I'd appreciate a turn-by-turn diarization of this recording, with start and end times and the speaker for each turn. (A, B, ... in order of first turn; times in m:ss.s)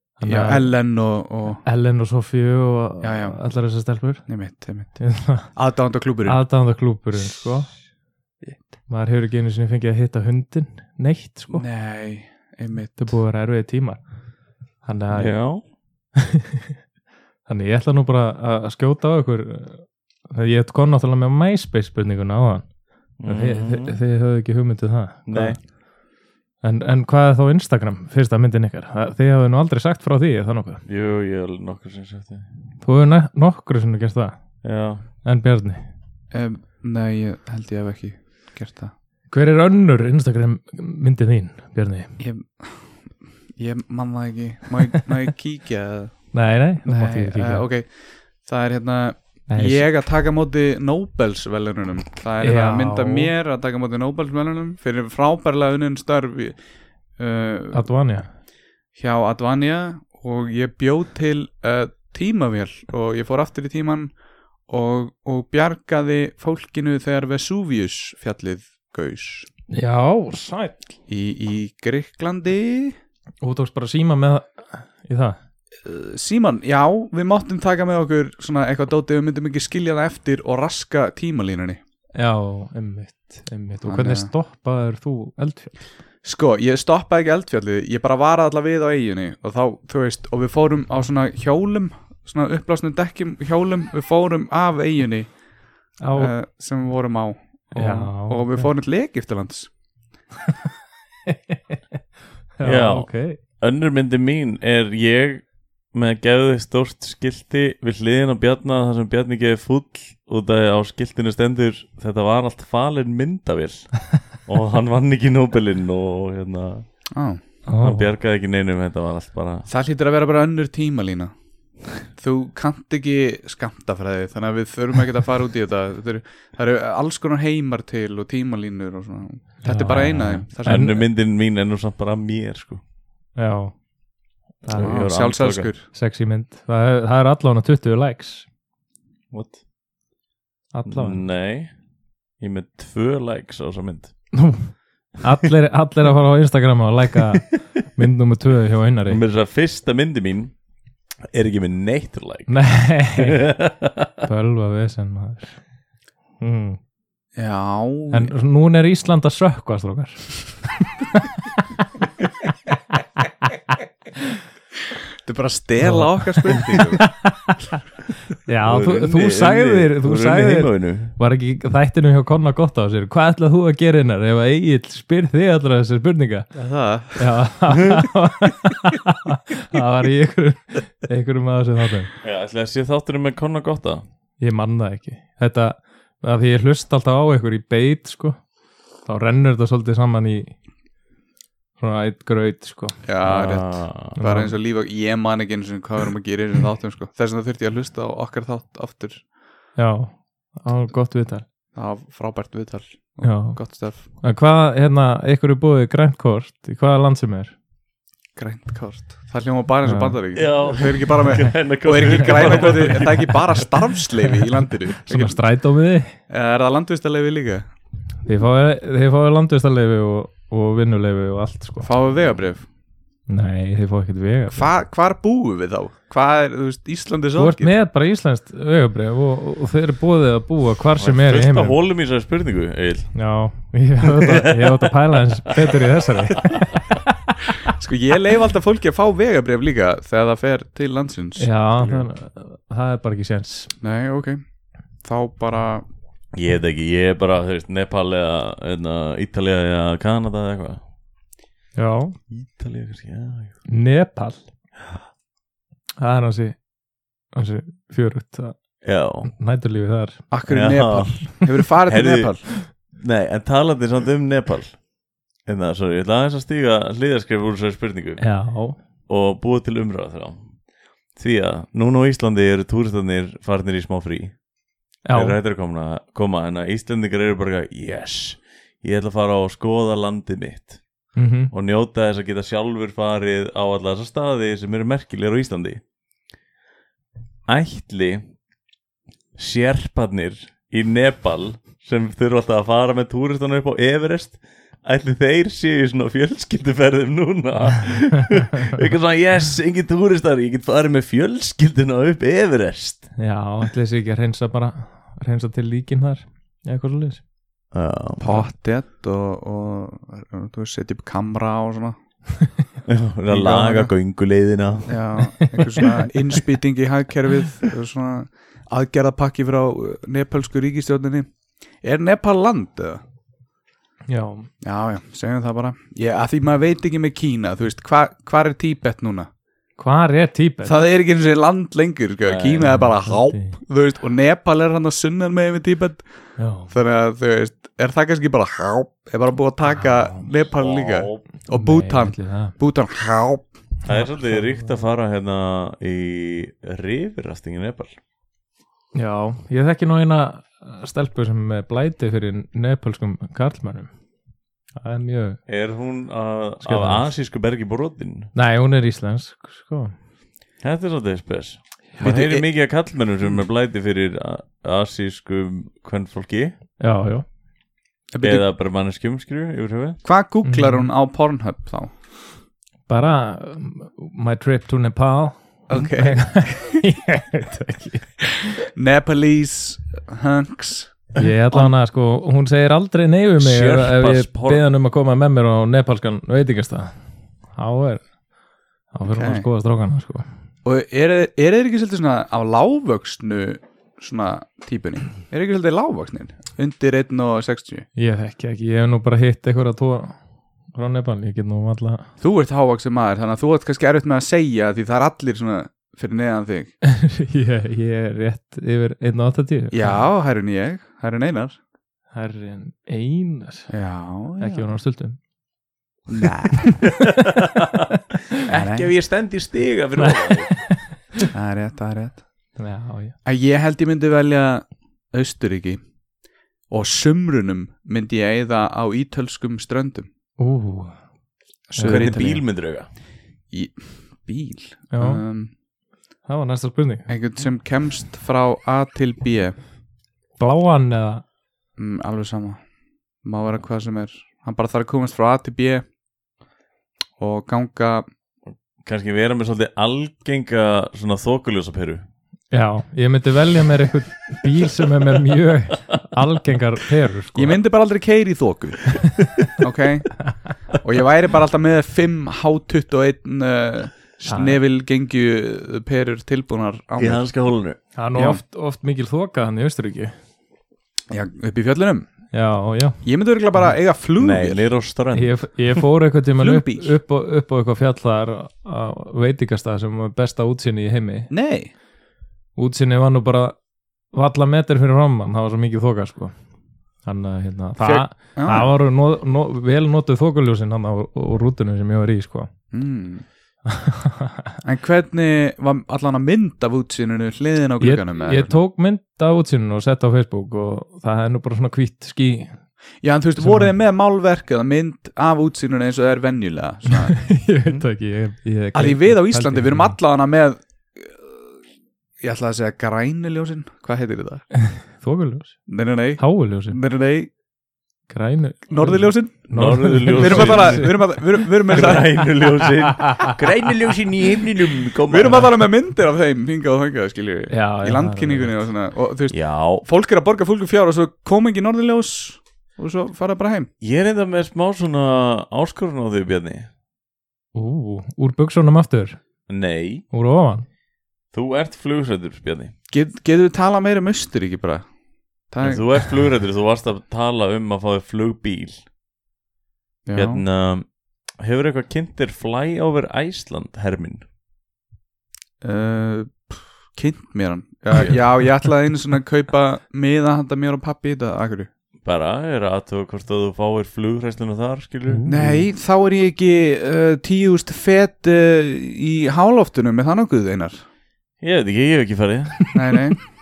0:00.2-0:00.7 A
0:00.2-0:01.6 B
0:01.6-0:04.3 A
0:03.0-0:03.4 B
0:04.3-0:05.0 B
0:05.0-0:05.5 A
0:05.5-0:06.4 B
0:06.2-0:07.7 A
0:08.9-0:11.6 A
0:11.5-0:13.2 B
0:13.0-0:14.0 A
0:14.8-0:15.3 A
0:15.1-0:15.6 C
0:17.5-0:25.7 A
0:23.2-0:24.0 C
0:25.3-0:25.6 C
0:26.6-0:30.8 A
0:30.8-0:32.5 C
0:32.8-0:34.6 A
0:34.6-0:35.0 C
0:35.2-0:35.8 A
0:36.3-0:38.9 B
0:39.3-0:42.2 A
0:42.2-0:42.8 B
0:43.6-0:47.9 B
0:46.3-0:47.6 A
0:48.4-0:56.6 B
0:49.5-0:49.9 A
0:52.4-0:53.3 A
0:57.2-0:57.9 B
0:57.7-0:58.3 A
0:59.0-1:04.1 B
1:04.7-1:09.5 B
1:09.7-1:10.9 A
1:11.1-1:13.0 B
1:13.4-1:15.4 A
1:15.8-1:21.8 B
1:22.1-1:25.8 A
1:23.8-1:24.3 B
1:26.2-1:35.3 B
1:36.0-1:36.3 A
1:36.1-1:39.7 B
1:37.7-1:38.7 A
1:41.3-1:42.0 A
1:42.6-1:43.4 A
1:42.6-1:56.8 C
1:57.1-1:57.4 B
1:57.7-1:58.1 A
1:57.8-1:59.7 C
1:59.7-2:01.3 B
2:02.1-2:11.0 B
2:09.6-2:11.0 A
2:10.6-2:12.8 C
2:13.4-2:13.8 A
2:14.6-2:15.0 A
2:14.7-2:15.7 C
2:14.7-2:15.9 B
2:15.9-2:18.5 A
2:19.3-2:19.6 C
2:20.7-2:21.2 A
2:20.9-2:21.7 C
2:22.4-2:24.1 C
2:24.3-2:29.2 A
2:29.1-2:30.6 C
2:31.3-2:32.6 C
2:32.5-2:33.5 A
2:33.2-2:34.1 C
2:34.2-2:35.6 A
2:36.4-2:36.8 A
2:37.3-2:38.3 B
2:38.1-2:40.6 A
2:45.2-2:47.1 B
2:45.8-2:47.8 A
2:48.4-2:56.5 A
2:48.6-2:51.1 C
2:56.5-2:57.3 B
2:57.2-3:02.1 A
3:02.2-3:04.0 C
3:04.4-3:08.4 A
3:09.0-3:10.5 A
3:11.8-3:13.0 A
3:13.0-3:19.2 B
3:13.2-3:14.2 C
3:14.2-3:14.5 A
3:19.8-3:21.4 A
3:21.7-3:24.0 B
3:23.2-3:23.6 A
3:24.2-3:27.5 A
3:28.4-3:35.4 B
3:29.8-3:30.2 A
3:30.3-3:33.7 C
3:32.4-3:33.1 A
3:35.0-3:36.1 A
3:36.3-3:37.6 B
3:38.2-3:41.9 A
3:41.8-3:42.6 B
3:43.3-3:44.7 A
3:44.5-3:47.7 B
3:47.4-3:51.8 A
3:51.0-3:53.2 C
3:53.1-3:57.6 A
3:54.0-3:54.9 C
3:55.5-3:55.8 C
3:56.3-3:56.6 C
3:57.7-4:02.0 B
4:01.4-4:03.7 A
4:03.8-4:04.4 B
4:05.0-4:05.8 B
4:06.3-4:10.8 C
4:11.8-4:12.2 A
4:12.3-4:13.6 C
4:13.7-4:14.4 A
4:16.0-4:16.6 A
4:17.3-4:18.6 A
4:18.8-4:19.3 C
4:19.3-4:20.3 A
4:20.3-4:22.4 B
4:20.5-4:21.2 C
4:21.9-4:24.8 C
4:25.4-4:28.3 C
4:28.2-4:28.8 A
4:29.1-4:30.5 C
4:31.1-4:34.4 C
4:35.0-4:35.4 A
4:35.1-4:40.8 C
4:41.2-4:41.5 A
4:41.5-4:45.8 C
4:47.5-4:48.2 C
4:49.4-5:03.1 C
5:03.2-5:07.2 A
5:07.7-5:08.4 C
5:08.2-5:12.0 B
5:12.9-5:15.0 C
5:13.3-5:13.9 B
5:14.8-5:21.3 B
5:15.2-5:16.0 A
5:21.8-5:23.0 B
5:24.1-5:24.5 A
5:24.6-5:29.3 B
5:29.8-5:30.8 A
5:30.6-5:36.0 B
5:32.2-5:32.8 C
5:32.8-5:33.6 A
5:36.4-5:36.7 A
5:36.7-5:43.5 B
5:40.5-5:41.2 C
5:41.5-5:42.6 A
5:43.8-5:47.9 C
5:43.9-5:44.6 A
5:48.9-5:53.9 A
5:54.8-5:55.4 A
5:55.5-5:58.3 C
5:56.6-5:57.1 A
5:58.3-5:59.9 A
6:00.6-6:06.5 C
6:02.0-6:02.5 B
6:06.8-6:07.2 A
6:08.1-6:08.4 B
6:08.2-6:10.0 C
6:10.0-6:11.9 B
6:10.4-6:10.9 A
6:12.9-6:18.2 A
6:15.7-6:16.8 B
6:18.6-6:21.7 B
6:21.2-6:26.9 A
6:23.4-6:24.6 C
6:27.5-6:28.1 A
6:28.9-6:30.2 A
6:29.1-6:29.5 B
6:30.6-6:37.8 B
6:38.0-6:40.2 A
6:40.7-6:42.1 A
6:42.2-6:46.7 B
6:46.9-6:50.0 A
6:49.7-6:51.6 B
6:52.1-6:53.7 A
6:53.7-6:54.6 B
6:54.4-6:55.2 A
6:56.1-6:56.9 B
6:57.0-7:00.7 C
6:58.5-6:58.9 B
7:00.0-7:00.8 A
7:01.3-7:02.2 B
7:02.6-7:03.1 A
7:03.2-7:05.8 B
7:06.7-7:10.1 B
7:10.4-7:11.0 A
7:11.7-7:12.4 B
7:11.8-7:12.2 A
7:11.8-7:12.9 C
7:13.5-7:15.5 B
7:14.9-7:15.2 A
7:16.2-7:17.1 A
7:17.1-7:19.6 B
7:20.4-7:21.2 A
7:21.8-7:22.6 B
7:23.2-7:25.8 B
7:27.2-7:28.0 B
7:28.8-7:32.0 C
7:32.5-7:37.6 A
7:37.3-7:40.1 B
7:40.7-7:47.2 B
7:44.2-7:44.6 A
7:47.0-7:47.8 C
7:48.0-7:50.1 A
7:48.1-7:48.4 B
7:51.1-7:52.1 B
7:52.3-7:53.0 A
7:53.0-7:54.6 B
7:54.2-7:55.4 C
7:55.1-8:01.3 A
7:56.4-7:57.0 B
8:01.3-8:01.7 B
8:02.6-8:03.6 A
8:04.1-8:06.3 A
8:07.0-8:12.5 A
8:07.8-8:08.7 B
8:12.7-8:13.2 B
8:13.6-8:14.5 A
8:14.6-8:18.6 B
8:17.8-8:22.6 A
8:23.0-8:27.8 B
8:23.4-8:23.7 A
8:27.0-8:29.9 A
8:28.7-8:31.6 B
8:32.2-8:34.4 B
8:34.5-8:35.6 A
8:35.7-8:37.3 B
8:36.2-8:36.8 A
8:38.1-8:41.0 A
8:38.7-8:42.3 B
8:39.5-8:41.1 C
8:41.7-8:45.5 C
8:41.7-8:43.3 A
8:45.0-8:53.7 B
8:47.5-8:48.6 A
8:49.3-8:49.8 C
8:53.8-8:56.7 C
8:57.5-8:59.2 A
8:59.5-9:00.0 C
9:00.1-9:00.6 A
9:01.3-9:02.7 C
9:02.9-9:04.8 B
9:05.5-9:05.9 B
9:05.6-9:08.8 C
9:10.0-9:10.4 B
9:10.1-9:14.2 C
9:15.6-9:21.7 B
9:22.0-9:25.4 C
9:25.1-9:25.6 A
9:25.3-9:30.8 B
9:31.4-9:32.7 C
9:32.7-9:33.2 B